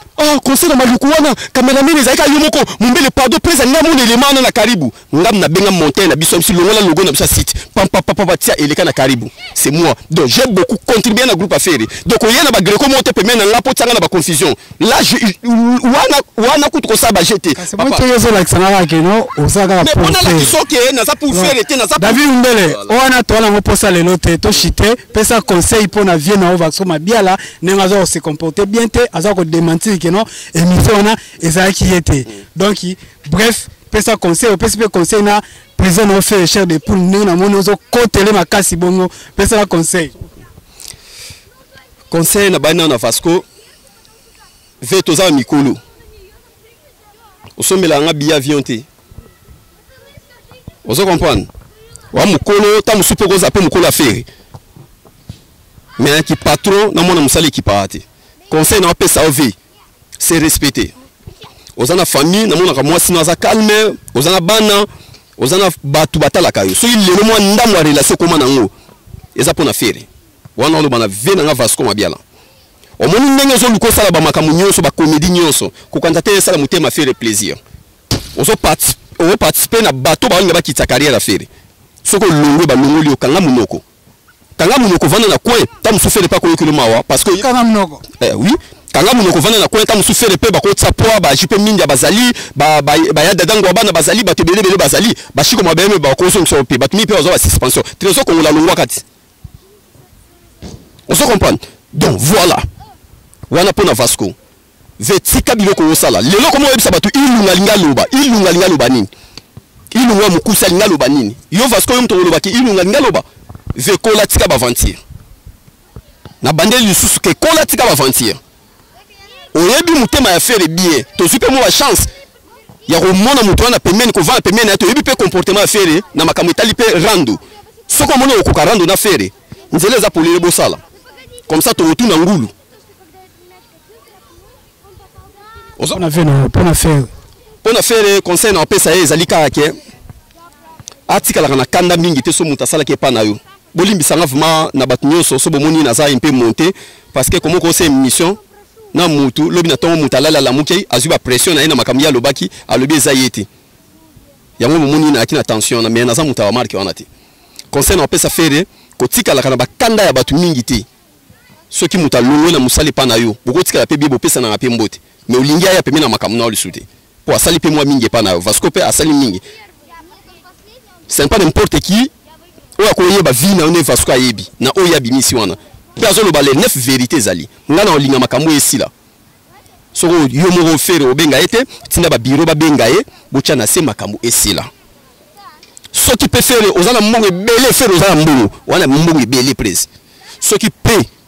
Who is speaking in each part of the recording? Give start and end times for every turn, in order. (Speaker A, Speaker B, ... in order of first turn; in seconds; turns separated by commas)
Speaker A: 0.2-18.1, Speaker B: 17.6-20.5, Speaker A: 19.8-22.9, Speaker B: 21.3-40.1, Speaker A: 42.1-43.4, Speaker A: 44.8-45.8, Speaker A: 47.6-48.9, Speaker A: 50.8-51.5, Speaker A: 52.1-54.3, Speaker A: 56.0-59.5, Speaker A: 60.2-60.9, Speaker A: 61.8-68.7, Speaker A: 69.3-72.2, Speaker A: 73.0-77.6, Speaker A: 78.3-81.5, Speaker A: 82.0-83.8, Speaker A: 84.6-87.5, Speaker B: 87.3-88.0, Speaker A: 88.2-99.0, Speaker A: 101.1-102.7, Speaker A: 103.5-104.3, Speaker A: 105.0-109.1, Speaker A: 109.9-115.0, Speaker A: 116.4-118.4, Speaker A: 119.5-122.1, Speaker A: 122.9-130.8, Speaker A: 131.5-132.5, Speaker B: 135.9-137.1, Speaker A: 137.6-139.8, Speaker A: 141.1-148.4, Speaker A: 148.9-153.5, Speaker A: 154.6-157.1, Speaker A: 157.7-160.8, Speaker A: 161.7-169.4, Speaker A: 171.1-172.1, Speaker A: 172.8-178.9, Speaker A: 179.9-184.7, Speaker A: 185.9-189.9, Speaker A: 190.4-191.1